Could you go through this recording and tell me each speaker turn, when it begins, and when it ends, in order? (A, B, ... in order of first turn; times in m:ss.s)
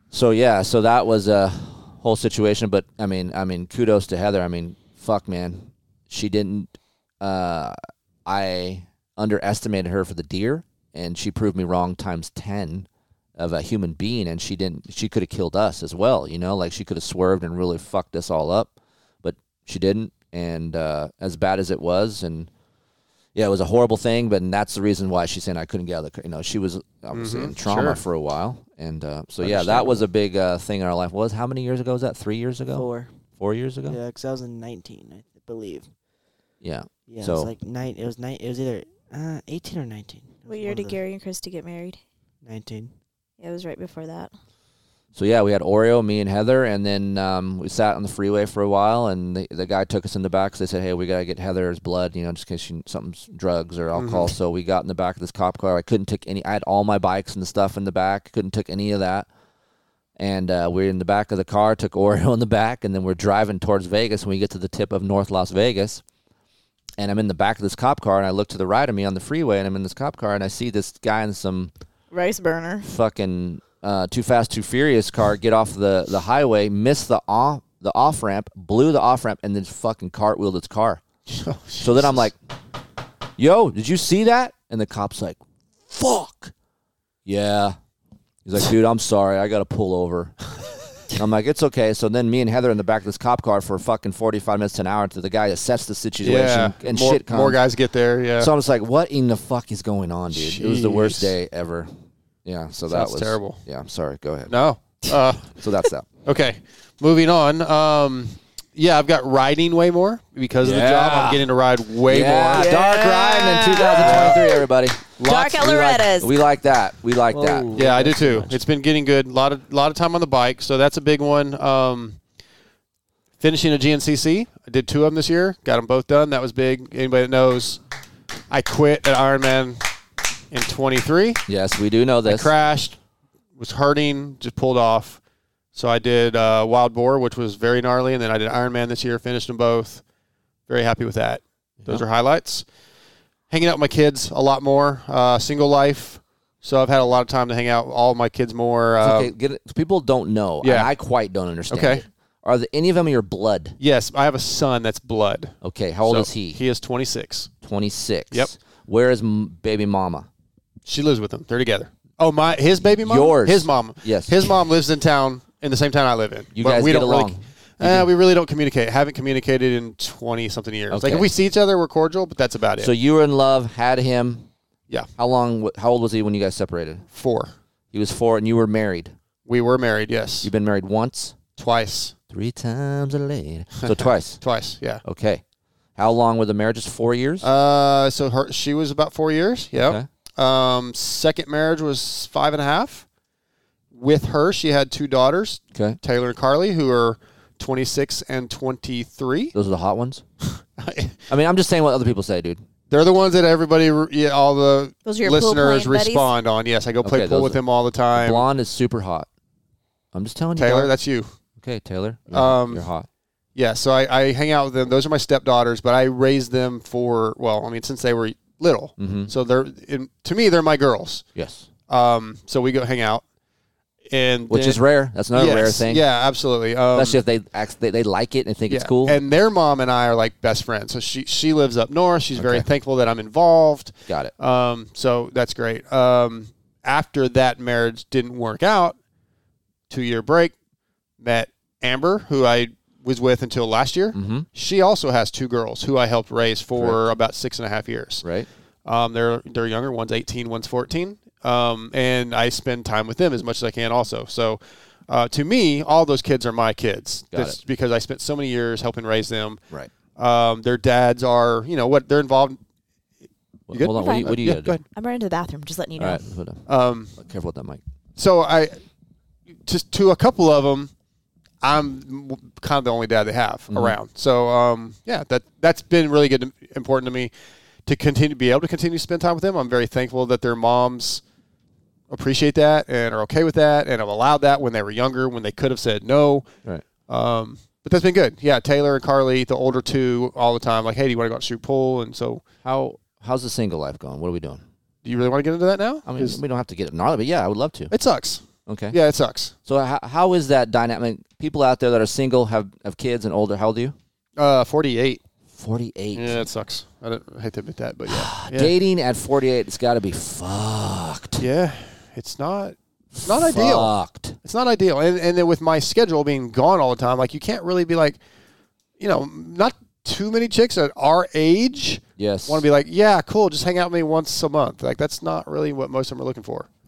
0:00.1-0:22.5 A
0:23.3-0:32.8 A
0:27.1-0:28.0 B
0:29.4-0:30.0 C
0:32.7-0:33.1 C
0:33.4-0:34.0 A
0:33.8-0:35.9 C
0:36.6-0:37.5 A
0:37.1-0:41.0 C
0:40.5-0:42.0 D
0:42.4-0:42.9 C
0:43.4-0:44.3 D
0:45.1-0:59.3 A
0:53.9-0:54.3 B
1:00.2-1:06.0 A
1:07.0-1:11.7 A
1:12.1-1:12.9 D
1:12.8-1:21.0 A
1:21.3-1:22.2 B
1:21.8-1:22.3 A
1:23.4-1:26.5 A
1:27.2-1:27.8 A
1:28.4-1:30.4 A
1:31.1-1:37.6 A
1:36.2-1:38.5 B
1:38.4-1:41.9 A
1:40.3-1:41.3 B
1:42.4-1:44.5 A
1:42.9-1:43.6 B
1:44.5-1:45.5 B
1:45.6-1:46.1 A
1:46.2-1:52.7 B
1:50.6-1:51.5 A
1:52.0-1:57.7 A
1:52.5-1:54.6 D
1:53.9-1:54.4 B
1:55.2-1:56.3 D
1:57.3-1:58.6 C
1:57.7-2:02.2 B
2:03.4-2:07.8 B
2:08.5-2:09.8 B
2:10.5-2:11.4 B
2:11.5-2:12.5 A
2:12.3-2:13.0 B
2:13.6-2:15.2 B
2:15.7-2:20.0 B
2:20.7-2:22.6 B
2:23.5-2:29.3 B
2:29.0-2:33.8 A
2:30.6-2:30.9 B
2:31.7-2:32.0 B
2:33.8-2:37.5 B
2:35.6-2:36.6 A
2:37.6-2:40.3 A
2:40.8-2:52.9 B
2:43.0-2:44.5 A
2:46.5-2:48.1 A
2:50.9-2:51.3 A
2:52.8-2:54.5 A
2:55.2-2:57.0 A
2:57.1-2:57.5 B
2:57.9-2:59.1 A
2:59.4-3:00.5 B
3:00.4-3:01.4 A
3:01.6-3:02.1 B
3:02.3-3:04.4 A
3:03.9-3:05.0 B
3:05.0-3:05.4 A
3:06.0-3:07.5 A
3:07.4-3:13.0 B
3:09.8-3:10.1 A
3:13.9-3:19.5 B
3:15.7-3:16.0 A
3:19.5-3:20.2 A
3:20.5-3:21.2 B
3:21.3-3:22.6 A
3:22.9-3:28.4 B
3:25.0-3:26.3 D
3:27.0-3:27.6 A
3:28.1-3:29.3 A
3:30.1-3:30.9 A
3:30.6-3:31.3 B
3:31.6-3:33.1 A
3:32.3-3:32.8 B
3:33.5-3:41.2 B
3:39.0-3:39.3 A
3:41.3-3:41.7 A
3:41.9-3:43.2 B
3:44.1-3:44.8 B
3:44.5-3:46.0 A
3:45.3-3:47.2 B
3:46.9-3:49.2 A
3:48.7-3:59.0 B
3:52.4-3:52.6 A
3:59.9-4:00.5 B
4:01.2-4:08.2 B
4:04.1-4:04.5 A
4:06.7-4:07.0 A
4:08.2-4:08.5 A
4:08.8-4:19.6 B
4:17.3-4:17.6 A
4:20.2-4:22.6 B
4:23.7-4:24.8 A
4:23.7-4:24.8 B
4:23.9-4:24.3 D
4:24.9-4:26.2 D
4:26.0-4:26.6 A
4:26.7-4:27.1 B
4:27.2-4:27.8 A
4:28.2-4:28.8 B
4:29.6-4:30.9 B
4:31.6-4:37.3 B
4:33.7-4:34.0 A
4:37.8-4:41.2 B
4:42.1-4:46.5 B
4:47.1-4:52.4 B
4:52.6-4:54.6 A
4:55.0-4:56.4 B
4:56.0-4:57.9 A
4:57.9-4:59.5 B
4:58.6-4:59.0 A
4:59.7-5:04.0 A
5:04.4-5:05.2 B
5:05.5-5:06.4 A
5:06.1-5:08.7 B
5:08.1-5:11.4 A
5:11.4-5:13.9 B
5:13.1-5:14.4 A
5:14.4-5:18.2 B
5:19.0-5:26.7 B
5:22.2-5:22.6 A